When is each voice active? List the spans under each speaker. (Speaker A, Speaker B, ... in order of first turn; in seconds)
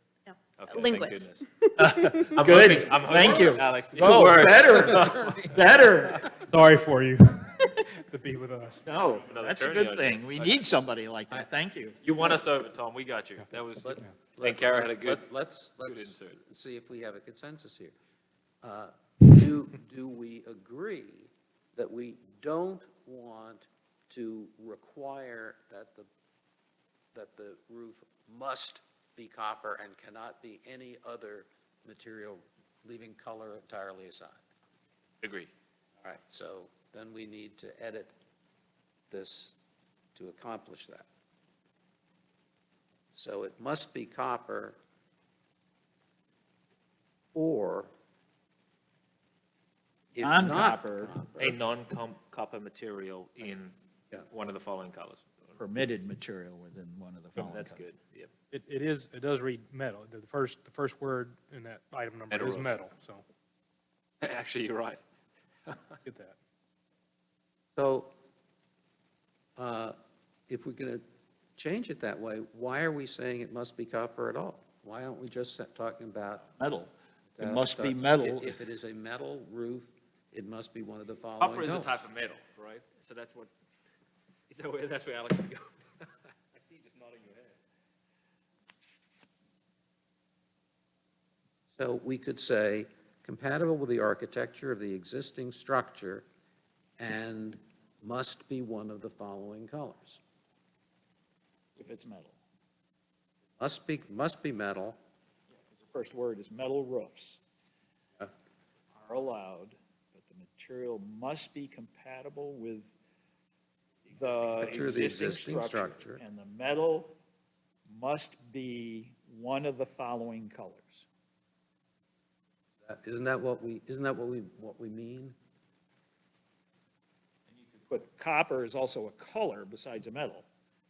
Speaker A: 0.2-2.3
Speaker B: 0.6-1.4, 2.3-5.4, 9.2-10.6, 12.0-15.2, 15.8-16.4, 35.2-35.5, 51.2-53.7, 54.3-55.6, 57.3-58.3, 62.3-62.7, 64.2-65.0, 65.7-66.0, 81.4-83.5, 84.5-87.5
Speaker C: 1.8-6.2, 8.8-12.0, 50.2-51.1, 55.6-57.8, 76.6-78.6, 101.8-102.4, 105.6-107.4, 108.9-112.9, 114.1-117.1, 117.9-121.0, 127.5-130.4
Speaker D: 6.4-8.8, 58.5-63.2, 66.0-66.3
Speaker E: 13.8-17.9, 18.6-26.1, 27.1-34.4, 36.0-38.1, 39.1-39.5, 40.1-41.0, 43.1-44.8, 47.3-47.9, 50.1-51.6, 67.8-68.1, 69.6-70.0, 70.5-71.0, 71.5-76.5, 77.3-82.0, 91.7-96.2, 97.0-100.2, 103.6-105.0, 114.3-116.2, 122.8-125.3